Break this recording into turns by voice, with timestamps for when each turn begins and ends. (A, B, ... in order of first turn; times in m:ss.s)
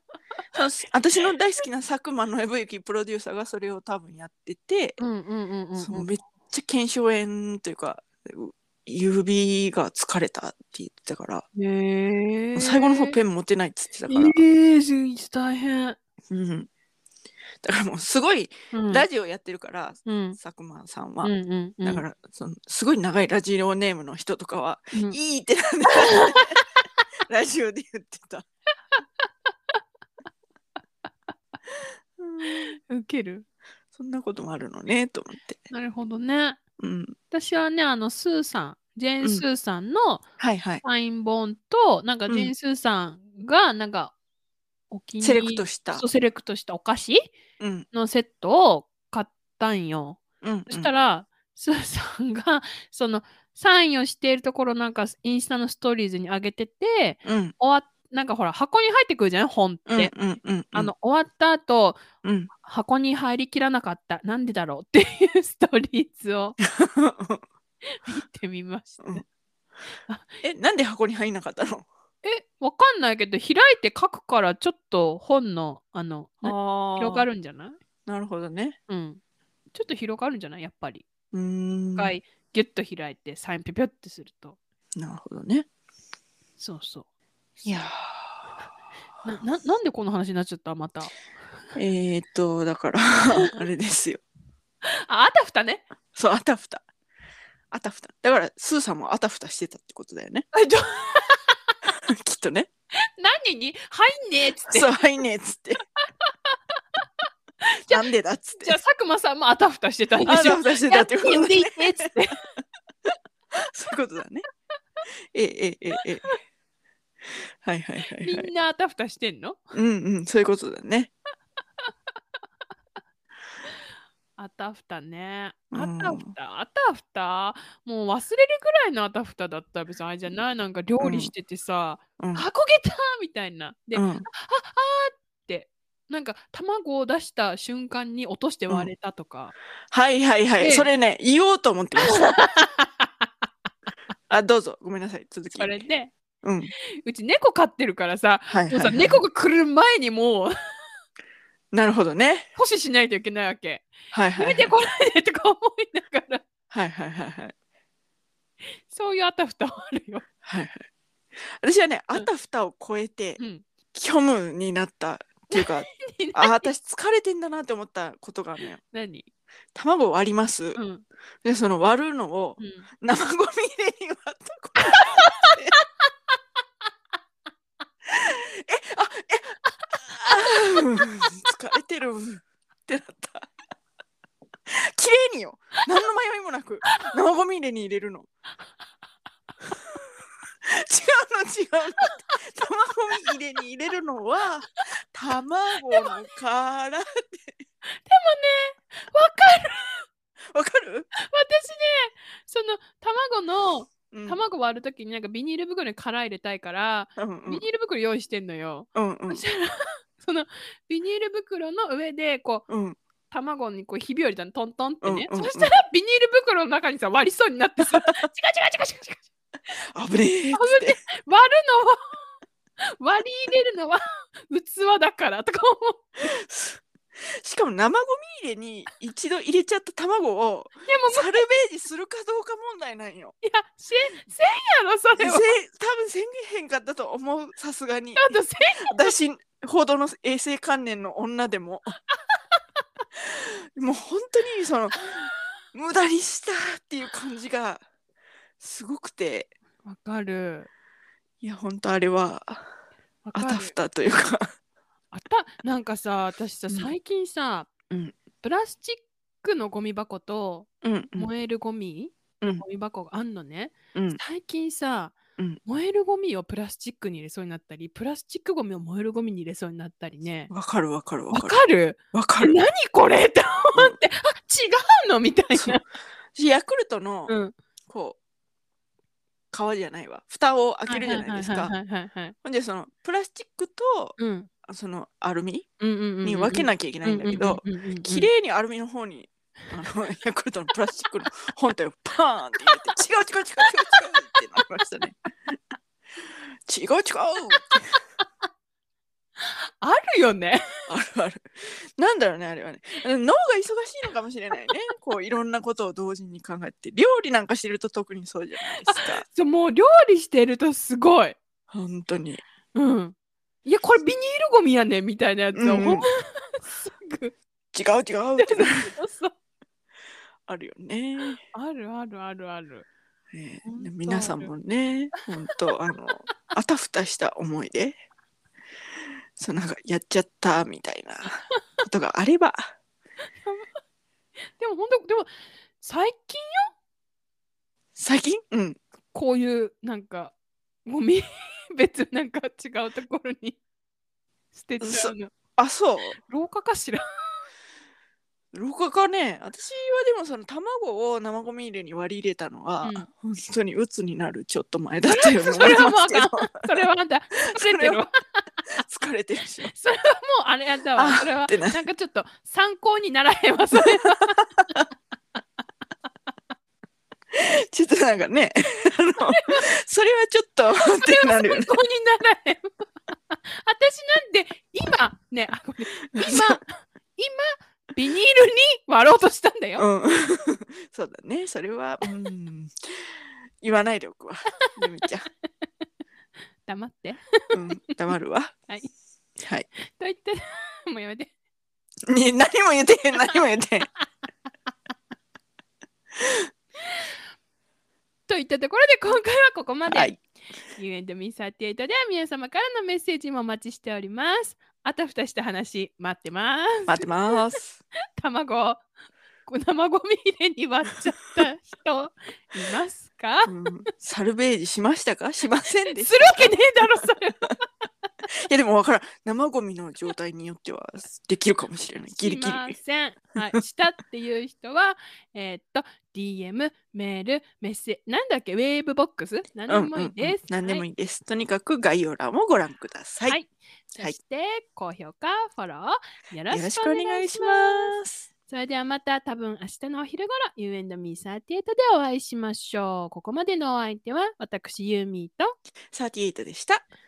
0:00.5-0:05.0 A
0:05.0-0:06.1 B
0:05.8-0:11.4 A
0:11.5-0:13.2 B
0:12.5-0:14.4 A
0:14.1-0:16.0 B
0:16.3-0:16.7 A
0:17.6-0:21.3 A
0:18.7-0:19.1 B
0:20.0-0:20.4 B
0:21.2-0:22.0 B
0:21.8-0:26.6 A
0:24.9-0:25.2 B
0:25.9-0:26.6 B
0:27.3-0:28.4 A
0:32.2-0:32.7 A
0:32.4-0:33.4 B
0:33.9-0:35.6 A
0:35.7-0:36.6 B
0:36.8-0:37.1 A
0:37.3-0:40.2 B
0:40.4-0:40.8 A
0:40.8-0:44.1 B
0:42.3-0:42.5 A
0:44.9-0:47.3 B
0:45.2-0:46.0 A
0:47.6-0:47.8 A
0:47.9-1:00.1 B
0:50.4-0:50.9 A
0:57.2-0:57.5 A
0:59.8-1:00.9 A
1:00.7-1:02.0 B
1:02.2-1:02.5 A
1:02.6-1:06.6 B
1:06.6-1:07.4 A
1:08.0-1:09.2 B
1:10.4-1:11.9 A
1:12.2-1:17.8 B
1:16.4-1:17.3 A
1:18.1-1:18.8 A
1:18.9-1:19.2 B
1:19.7-1:21.0 B
1:21.3-1:22.2 A
1:22.0-1:24.6 B
1:25.0-1:25.6 A
1:26.6-1:27.0 B
1:27.6-1:28.4 A
1:29.2-1:31.1 B
1:31.7-1:34.2 A
1:35.0-1:35.8 B
1:36.1-1:36.8 A
1:37.7-1:40.5 A
1:40.5-1:41.5 B
1:42.1-1:42.7 A
1:43.2-1:44.9 B
1:44.6-1:45.8 A
1:47.9-1:48.8 A
1:48.6-1:52.4 B
1:50.2-1:52.1 A
1:53.7-1:54.4 A
1:55.3-1:56.3 A
1:57.6-1:58.5 A
1:58.2-1:59.6 B
1:59.7-2:01.1 A
2:04.4-2:19.5 B
2:05.7-2:06.3 A
2:11.0-2:11.3 A
2:12.2-2:12.4 A
2:13.9-2:14.3 A
2:19.9-2:22.4 A
2:20.6-2:20.9 B
2:22.0-2:23.2 B
2:24.3-2:25.8 A
2:25.5-2:26.1 B
2:26.4-2:26.7 A
2:27.0-2:30.5 B
2:28.5-2:29.2 A
2:31.7-2:32.5 A
2:32.6-2:36.4 B
2:34.1-2:34.7 A
2:36.7-2:37.5 A
2:38.9-2:40.2 B
2:40.4-2:40.8 A
2:41.6-2:43.4 A
2:43.4-2:43.6 B
2:43.9-2:48.8 A
2:45.5-2:46.7 B
2:48.9-2:49.3 B
2:49.7-2:50.8 A
2:50.7-2:51.0 B
2:51.4-2:55.8 A
2:52.6-2:52.8 B
2:54.8-2:55.5 B
2:58.1-3:03.5 A
3:04.7-3:08.3 A
3:10.7-3:17.5 A
3:15.9-3:16.1 B
3:17.9-3:20.0 B
3:20.5-3:21.1 A
3:21.1-3:32.6 B
3:24.1-3:24.4 A
3:27.2-3:27.6 A
3:28.9-3:29.4 A
3:32.7-3:33.0 A
3:33.3-3:39.2 B
3:35.0-3:35.7 A
3:37.8-3:38.3 A
3:39.7-3:41.0 A
3:40.5-3:42.2 B
3:43.0-3:46.1 B
3:46.2-3:46.8 A
3:47.4-3:53.3 A
3:50.9-3:51.6 B
3:53.4-3:55.5 B
3:55.2-4:02.0 A
3:58.2-3:59.1 B
4:03.8-4:07.8 A
4:08.6-4:09.5 A
4:09.8-4:10.7 B
4:11.4-4:12.7 A
4:13.2-4:13.7 B
4:13.3-4:14.5 A
4:15.1-4:17.7 B
4:17.9-4:18.1 A
4:18.4-4:30.5 B
4:20.8-4:21.3 A
4:23.9-4:24.2 A
4:30.5-4:31.6 A
4:31.3-4:35.8 B
4:32.1-4:32.6 A
4:35.5-4:35.8 A
4:36.3-4:37.3 A
4:37.3-4:37.5 B
4:37.9-4:38.2 A
4:39.5-4:41.7 A
4:40.9-4:42.3 B
4:42.4-4:45.6 A
4:44.2-4:44.5 B
4:45.8-4:48.3 B
4:46.2-4:55.6 A
4:56.7-4:58.0 A
4:59.4-5:00.6 B
5:00.9-5:09.2 A
5:08.6-5:11.4 B
5:11.7-5:12.4 A
5:12.7-5:17.3 B
5:15.5-5:16.1 A
5:17.7-5:18.9 A
5:18.4-5:19.3 B
5:20.5-5:21.4 A
5:21.5-5:22.8 B
5:23.3-5:28.0 A
5:23.6-5:24.5 B
5:29.4-5:32.7 A
5:34.6-5:35.3 B
5:35.8-5:36.7 B
5:37.9-5:38.8 A
5:39.1-5:40.3 B
5:40.8-5:43.6 B
5:44.5-5:45.3 B
5:44.8-5:46.2 A
5:46.2-5:47.5 B
5:48.5-5:56.7 A
5:52.8-5:53.1 B
5:55.0-5:58.4 B
5:57.5-5:58.0 A
5:58.8-5:59.7 A
5:59.6-6:04.5 B
6:01.0-6:01.8 A
6:07.3-6:11.8 A
6:09.3-6:09.6 B
6:10.8-6:19.9 B
6:16.1-6:16.6 A
6:19.8-6:22.7 A
6:23.6-6:25.3 A
6:26.6-6:27.2 B
6:27.5-6:28.5 A
6:29.4-6:29.7 A
6:29.8-6:31.3 B
6:32.1-6:33.9 A
6:38.3-6:40.2 B
6:39.9-6:40.2 A
6:40.7-6:47.1 B
6:46.9-6:47.8 A
6:48.2-6:48.8 B
6:49.4-6:53.5 B
6:53.4-6:57.1 A
6:55.9-6:57.6 B
6:58.5-7:02.8 A
7:02.1-7:10.8 B
7:09.7-7:13.4 A
7:13.2-7:18.0 B
7:16.5-7:18.3 A
7:18.5-7:25.5 B
7:25.9-7:26.8 A